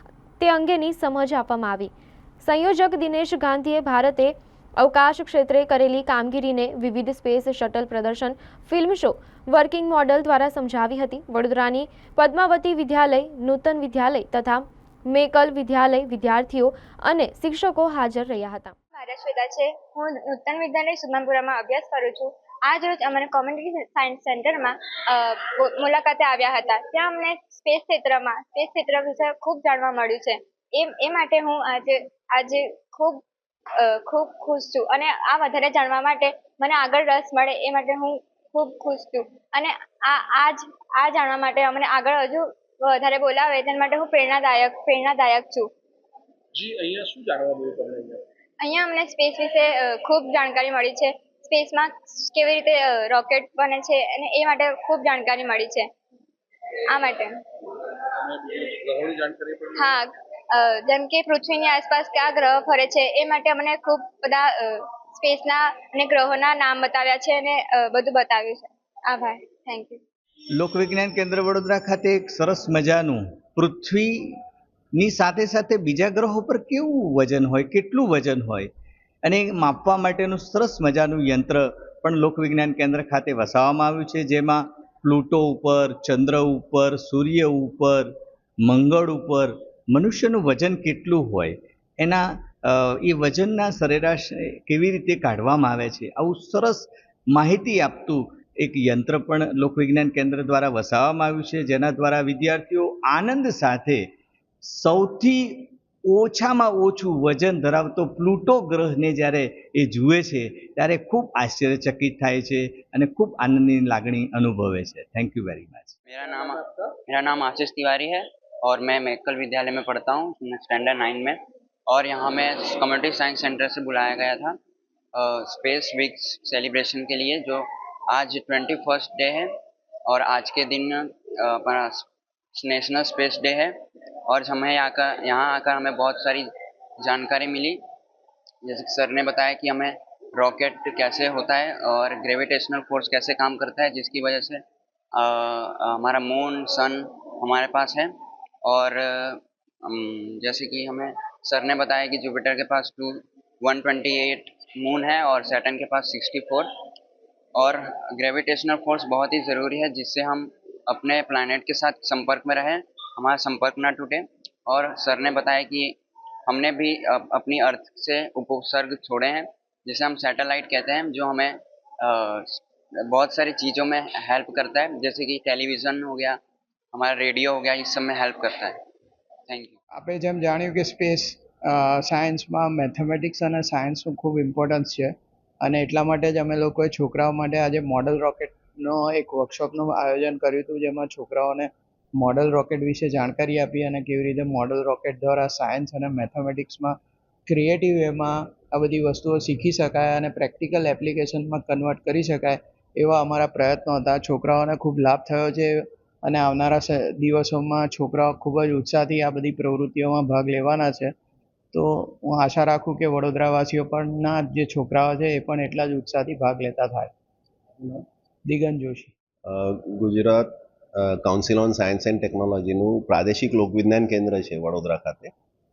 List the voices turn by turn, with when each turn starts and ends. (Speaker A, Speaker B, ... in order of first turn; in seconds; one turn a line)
Speaker A: 0.4-1.9
Speaker A: 2.4-18.7
Speaker B: 18.9-33.2
Speaker B: 33.8-45.7
Speaker C: 46.5-48.2
Speaker B: 48.6-55.9
Speaker B: 56.9-57.4
Speaker C: 58.2-60.0
Speaker B: 59.8-70.0
Speaker D: 70.5-74.3
Speaker D: 75.0-78.7
Speaker D: 79.2-88.1
Speaker D: 88.6-104.0
Speaker D: 104.6-116.0
Speaker E: 116.1-124.6
Speaker C: 116.2-117.0
Speaker E: 125.2-129.5
Speaker E: 130.1-133.7
Speaker E: 134.3-136.5
Speaker E: 137.0-137.8
Speaker E: 138.6-144.6
Speaker E: 145.2-148.1
Speaker E: 148.7-156.7
Speaker E: 157.6-165.9
Speaker E: 166.5-176.4
Speaker E: 176.9-178.8
Speaker E: 179.5-179.7
Speaker F: 179.9-196.9
Speaker F: 197.5-211.1
Speaker F: 211.7-217.1
Speaker F: 217.8-219.1
Speaker G: 219.4-225.3